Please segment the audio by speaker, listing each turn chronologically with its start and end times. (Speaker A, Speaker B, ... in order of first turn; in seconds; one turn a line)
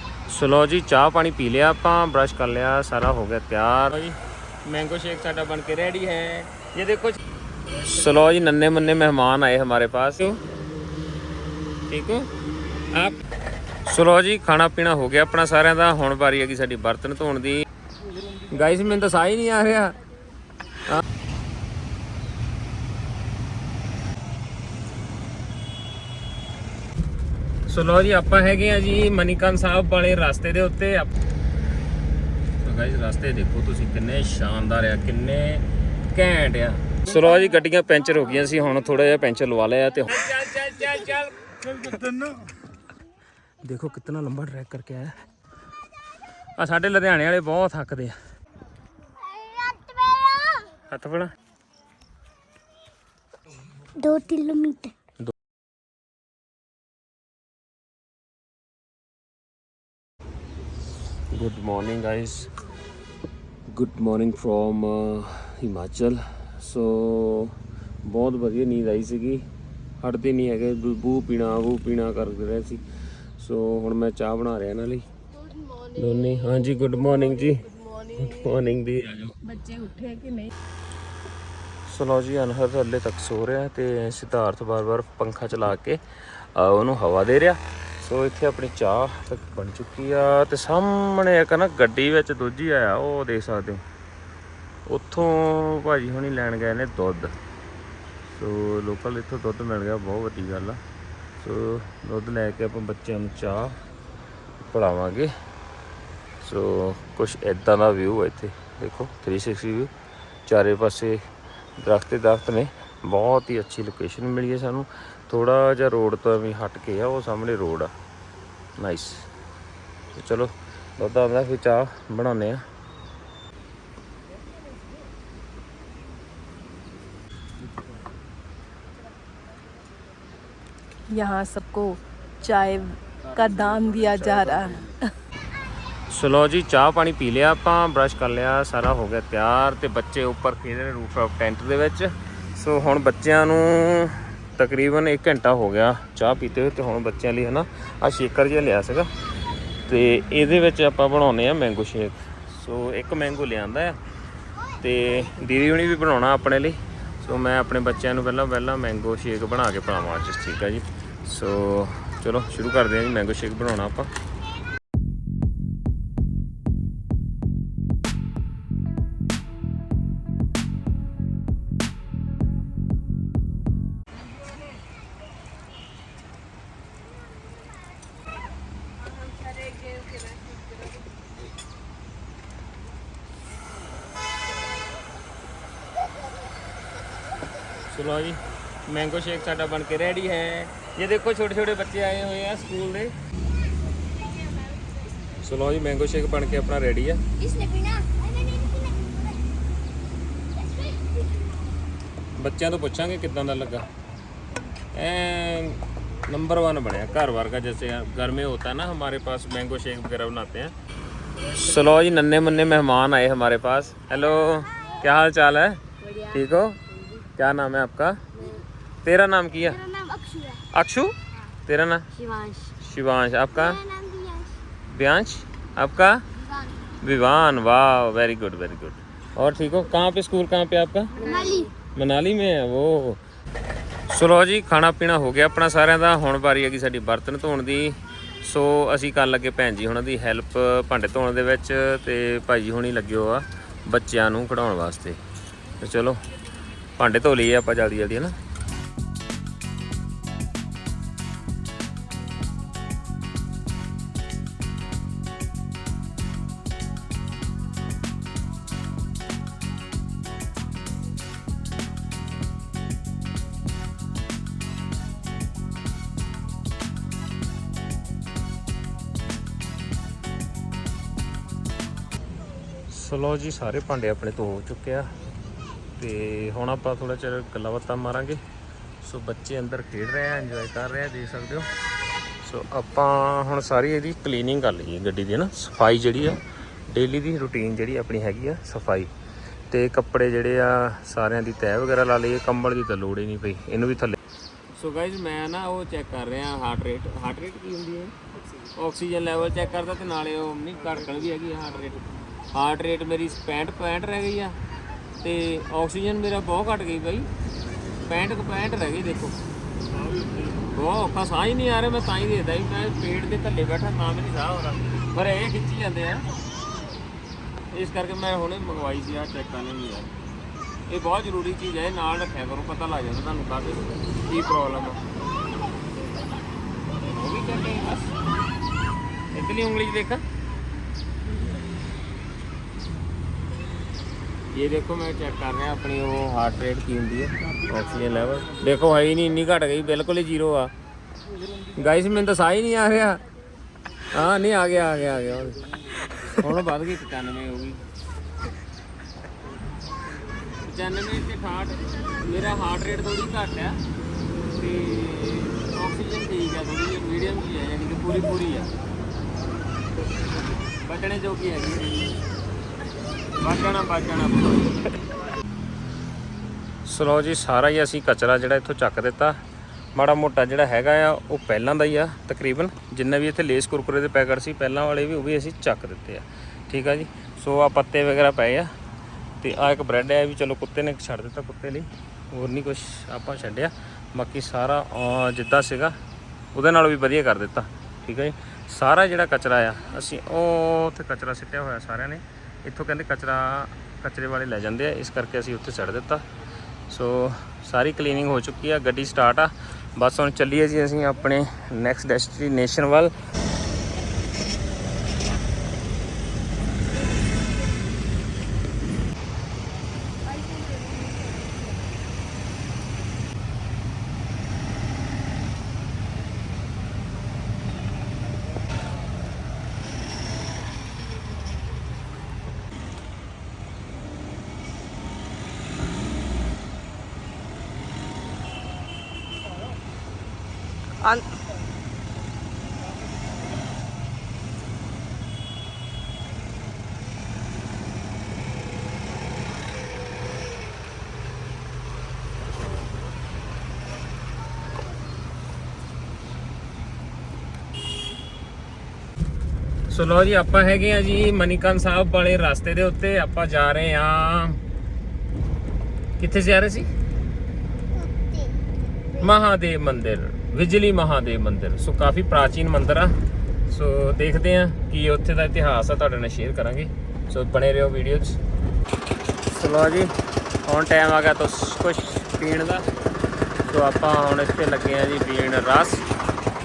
Speaker A: 0.3-10.4
Speaker A: 11.9-12.3
Speaker A: 12.9-13.2
Speaker A: 13.8-17.7
Speaker A: 18.4-19.9
Speaker A: 27.7-31.1
Speaker A: 32.6-41.4
Speaker A: 43.6-45.2
Speaker A: 46.6-48.1
Speaker B: 49.3-50.7
Speaker A: 50.9-51.3
Speaker B: 54.0-54.9
Speaker A: 61.3-62.5
Speaker A: 63.7-69.5
Speaker A: 70.0-72.8
Speaker A: 73.4-75.0
Speaker A: 75.7-79.6
Speaker C: 79.5-80.5
Speaker A: 81.8-93.8
Speaker A: 94.8-97.4
Speaker A: 98.2-100.8
Speaker A: 101.4-103.8
Speaker A: 104.6-105.3
Speaker A: 106.4-109.9
Speaker A: 110.5-111.2
Speaker A: 111.8-117.9
Speaker A: 118.8-119.3
Speaker A: 120.1-122.6
Speaker C: 131.1-135.1
Speaker A: 136.1-149.1
Speaker A: 149.8-154.0
Speaker A: 154.8-164.1
Speaker A: 187.8-193.1
Speaker A: 195.4-197.2
Speaker B: 197.5-199.1
Speaker A: 202.4-203.9
Speaker A: 204.9-210.7
Speaker A: 211.4-216.8
Speaker A: 217.3-219.9
Speaker B: 219.9-220.6
Speaker A: 220.7-221.1
Speaker A: 221.7-222.1
Speaker A: 222.8-223.9
Speaker B: 223.8-224.5
Speaker A: 224.9-226.2
Speaker A: 227.0-233.2
Speaker B: 231.2-231.7
Speaker A: 234.1-245.2
Speaker A: 245.8-246.2
Speaker A: 247.0-248.4
Speaker A: 272.9-275.1
Speaker A: 276.0-278.4
Speaker A: 279.0-281.7
Speaker A: 282.4-289.1
Speaker A: 289.7-294.2
Speaker A: 294.8-298.1
Speaker A: 298.7-304.6
Speaker A: 305.2-307.3
Speaker A: 308.0-309.4
Speaker A: 310.2-316.2
Speaker A: 317.7-320.1
Speaker A: 320.9-325.0
Speaker A: 327.0-328.1
Speaker A: 329.3-330.2
Speaker A: 334.5-340.7
Speaker A: 341.7-343.2
Speaker A: 344.1-347.8
Speaker A: 350.6-353.8
Speaker A: 354.4-358.7
Speaker A: 360.8-362.0
Speaker A: 363.4-364.9
Speaker A: 366.8-369.4
Speaker A: 369.9-378.7
Speaker A: 379.4-386.0
Speaker A: 386.5-396.2
Speaker A: 396.9-403.1
Speaker A: 449.9-454.6
Speaker A: 456.2-456.9
Speaker A: 459.2-463.1
Speaker A: 463.7-468.4
Speaker A: 469.5-470.1
Speaker A: 470.6-472.8
Speaker A: 473.6-476.1